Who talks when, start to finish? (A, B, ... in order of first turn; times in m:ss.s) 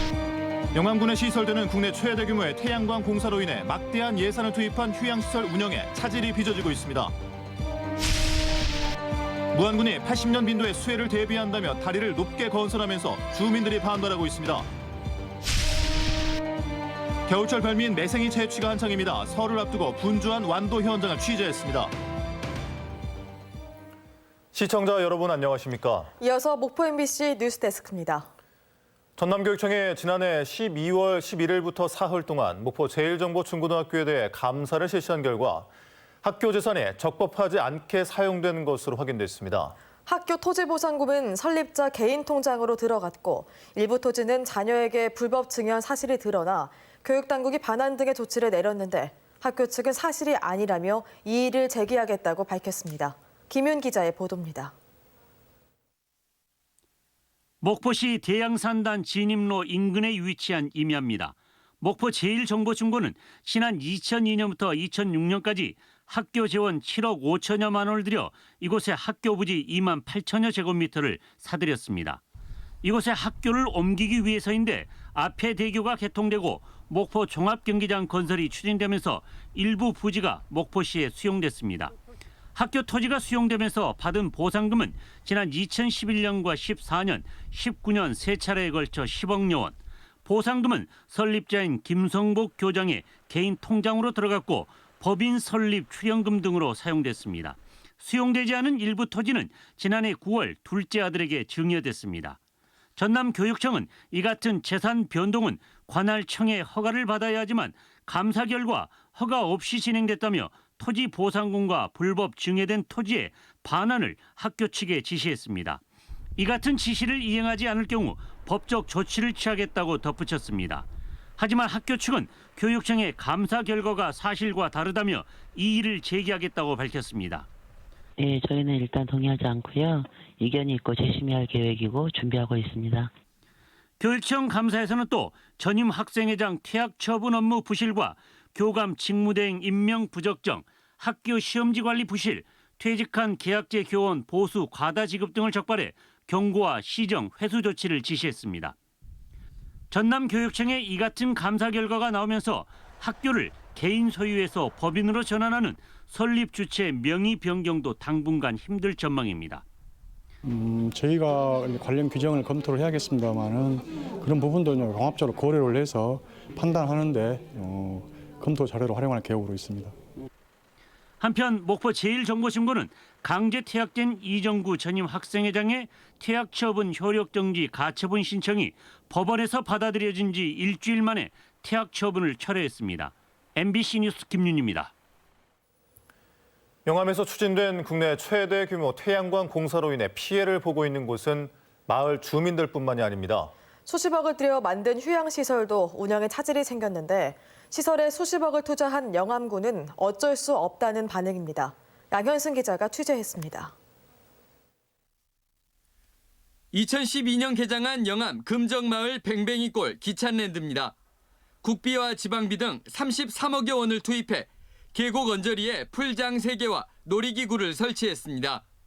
0:00.7-0:07.1 A
0:09.5-0:14.7 A
0:17.3-0:21.9 A
0:24.5-0:26.1 A
0:26.2-0:28.3 B
0:29.2-0:35.7 A
0:36.2-0:39.8 A
0:40.0-0:54.7 B
0:57.6-1:12.2 C
1:12.8-1:21.9 C
1:22.5-1:42.4 C
1:43.0-1:55.8 C
1:56.4-2:00.8 C
2:01.4-2:07.4 C
2:08.2-2:13.1 D
2:14.0-2:28.7 C
2:29.9-2:39.6 C
2:40.4-2:49.9 E
2:51.2-3:04.9 C
3:06.8-3:13.5 A
3:13.8-3:23.7 B
3:26.7-3:30.9 F
3:31.6-3:38.6 F